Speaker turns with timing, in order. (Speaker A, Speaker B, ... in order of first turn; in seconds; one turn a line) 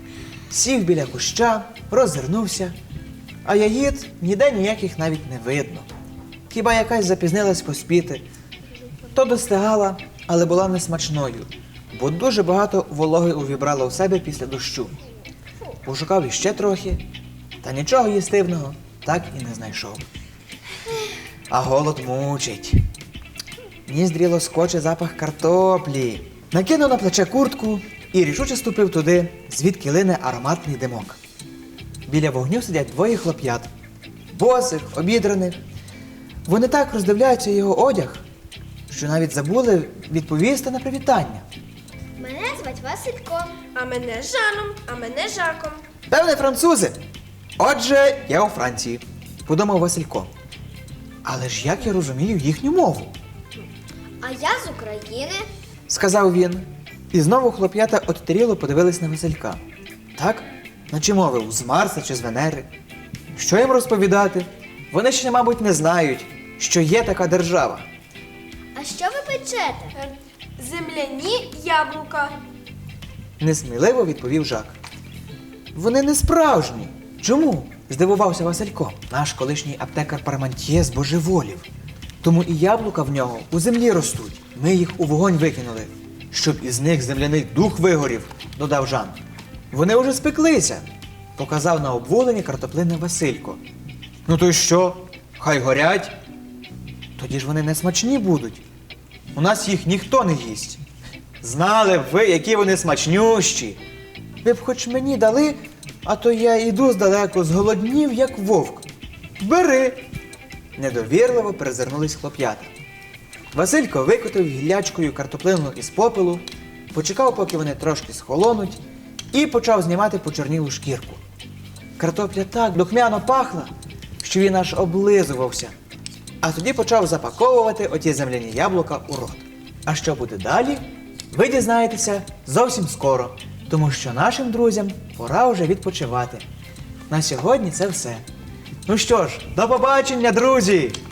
Speaker A: 0.5-2.7
Speaker A: 3.4-5.9
Speaker A: 6.5-8.2
Speaker A: 9.1-15.0
Speaker A: 15.8-17.0
Speaker A: 17.6-20.0
Speaker A: 21.5-22.8
Speaker A: 23.9-31.2
Speaker A: 32.1-33.7
Speaker A: 34.3-35.6
Speaker A: 36.5-38.2
Speaker A: 38.9-41.4
Speaker B: 42.2-43.6
Speaker C: 43.7-45.8
Speaker A: 46.1-47.0
Speaker A: 47.6-50.3
Speaker A: 51.2-53.1
Speaker B: 54.2-55.5
Speaker A: 55.9-59.6
Speaker A: 60.1-62.7
Speaker A: 63.3-67.8
Speaker B: 68.7-70.0
Speaker C: 69.9-72.3
Speaker A: 73.4-74.8
Speaker A: 75.7-81.7
Speaker A: 82.2-89.2
Speaker A: 89.7-93.6
Speaker A: 94.2-96.1
Speaker A: 97.2-98.6
Speaker A: 99.3-100.8
Speaker A: 101.4-103.8
Speaker A: 104.4-108.8
Speaker A: 109.4-110.0
Speaker A: 110.8-112.7
Speaker A: 113.5-118.8
Speaker A: 119.3-121.2
Speaker A: 122.0-125.7
Speaker A: 126.4-136.4
Speaker A: 137.1-138.2
Speaker A: 138.8-141.0